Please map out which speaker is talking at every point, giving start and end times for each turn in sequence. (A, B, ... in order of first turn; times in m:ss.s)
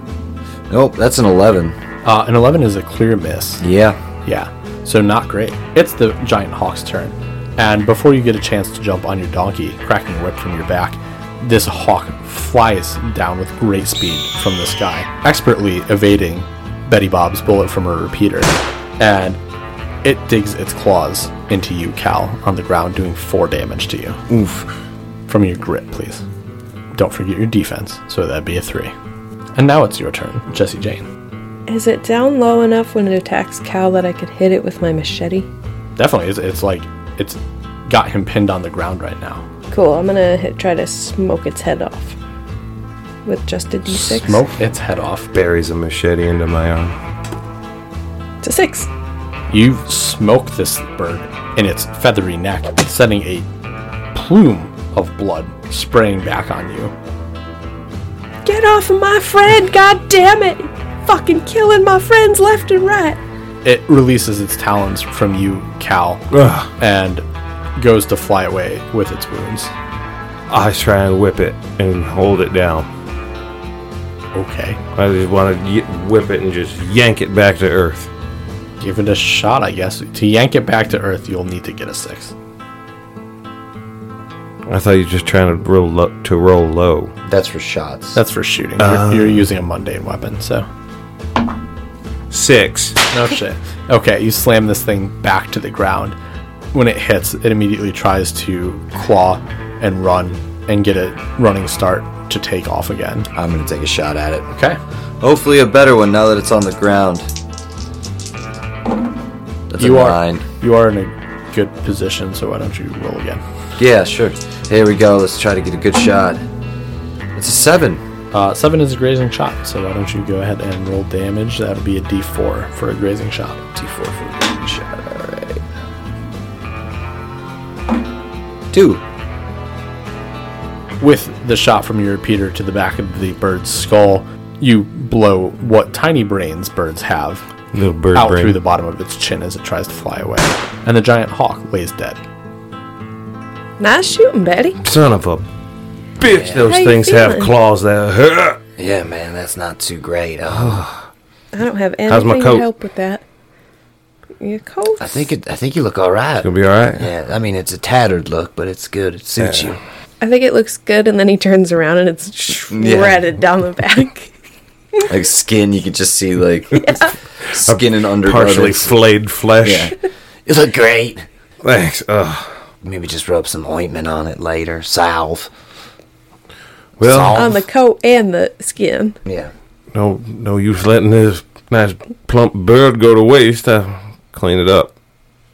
0:00.7-0:01.8 A
0:02.0-0:03.6 B
0:03.6-0:04.0 A
0:04.2-0:19.4 B
0:20.0-0:24.2 B
0:24.3-0:24.7 C
0:25.3-0:26.2 B
0:27.0-0:28.9 B
0:29.6-0:31.1 B
0:31.7-0:35.5 D
0:36.0-0:39.5 B
0:39.7-0:42.2 D
0:43.2-0:44.4 D
0:44.1-0:45.3 B
0:45.3-0:47.0 C
0:48.4-0:48.9 D
0:49.5-0:53.5 B
0:54.1-0:56.9 B
0:58.4-1:03.2 D
1:03.6-1:09.7 B
1:06.3-1:06.7 C
1:10.5-1:12.9 C
1:14.3-1:14.8 B
1:15.0-1:18.1 C
1:18.8-1:22.3 B
1:24.7-1:27.1 C
1:27.3-1:28.2 A
1:28.2-1:30.7 B
1:28.8-1:29.4 C
1:32.3-1:33.0 C
1:33.1-1:36.2 B
1:36.7-1:43.3 B
1:43.3-1:44.5 A
1:45.2-1:47.3 A
1:49.7-1:50.4 A
1:49.8-1:53.4 B
1:53.8-1:56.4 A
1:57.4-1:58.0 A
1:58.3-2:03.6 B
2:03.8-2:05.6 A
2:08.7-2:09.0 A
2:11.0-2:17.5 B
2:17.7-2:18.6 C
2:18.1-2:22.2 B
2:23.8-2:24.8 D
2:24.8-2:25.4 C
2:26.2-2:28.6 C
2:26.3-2:26.6 E
2:26.6-2:27.5 D
2:28.8-2:30.8 E
2:30.5-2:31.1 C
2:31.5-2:33.2 D
2:32.1-2:32.7 C
2:34.4-2:35.2 D
2:35.0-2:39.8 E
2:36.4-2:37.1 C
2:39.4-2:39.7 C
2:40.2-2:44.3 D
2:42.7-2:43.2 A
2:45.1-2:47.0 A
2:46.8-2:47.1 D
2:47.5-2:50.0 C
2:47.5-2:48.9 A
2:49.6-2:49.9 A
2:50.5-2:51.3 E
2:51.6-2:52.6 C
2:52.8-2:55.5 E
2:57.0-2:57.5 C
2:57.0-2:57.6 E
2:57.3-2:59.2 D
2:59.3-2:59.5 E
2:59.9-3:04.9 C